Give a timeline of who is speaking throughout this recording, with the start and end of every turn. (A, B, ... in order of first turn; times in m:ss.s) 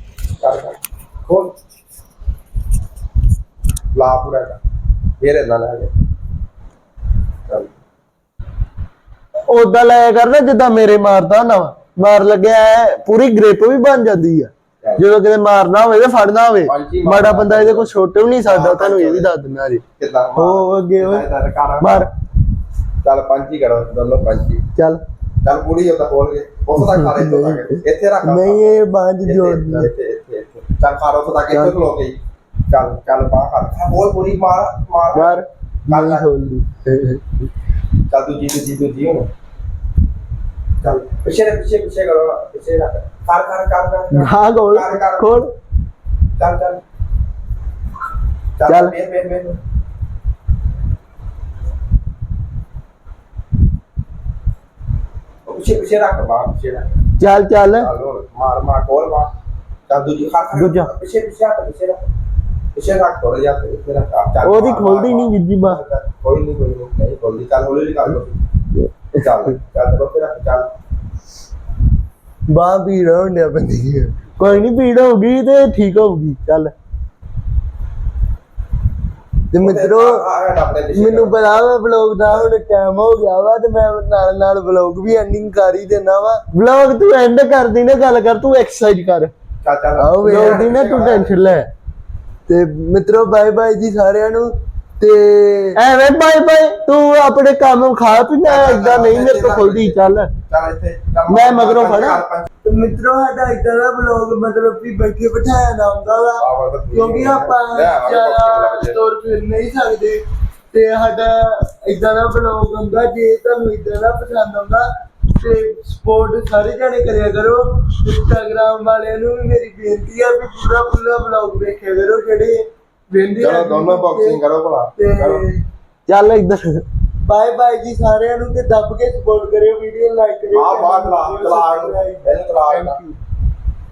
0:00.4-0:01.6 A
0:03.9-0:04.6 A
0:05.2-0:05.9 A
0:09.5-0:19.8 B
0:16.6-0:17.9 A
0:18.4-0:19.3 A
0:20.0-0:22.1 A
0:20.4-0:21.2 C
0:21.8-0:22.1 B
0:23.0-0:24.6 A
0:24.8-0:25.0 B
0:25.4-0:36.3 A
0:26.8-0:29.9 C
0:35.1-0:37.2 B
0:38.1-0:39.3 A
0:40.8-0:45.3 A
0:44.1-0:45.5 B
0:46.4-0:46.8 A
0:48.6-0:49.6 A
0:48.7-0:48.9 B
0:55.4-0:56.9 A
0:57.2-0:57.9 B
0:57.8-0:59.3 A
0:59.9-1:02.1 A
1:00.5-1:00.9 B
1:02.8-1:08.4 A
1:04.4-1:05.8 B
1:09.2-1:10.7 A
1:12.5-1:14.1 C
1:14.4-1:16.7 B
1:19.5-1:20.2 C
1:19.6-1:21.4 A
1:20.9-1:26.4 C
1:26.5-1:29.3 B
1:29.6-1:31.4 A
1:30.0-1:30.7 C
1:30.2-1:31.7 B
1:32.5-1:35.8 C
1:35.8-1:40.3 B
1:38.4-1:42.5 A
1:41.3-1:42.2 B
1:42.6-1:50.2 C
1:46.4-1:49.0 A
1:50.7-2:04.4 C
2:03.4-2:05.4 A
2:05.0-2:05.6 C
2:06.1-2:06.8 B
2:07.2-2:13.1 C
2:10.5-2:13.0 A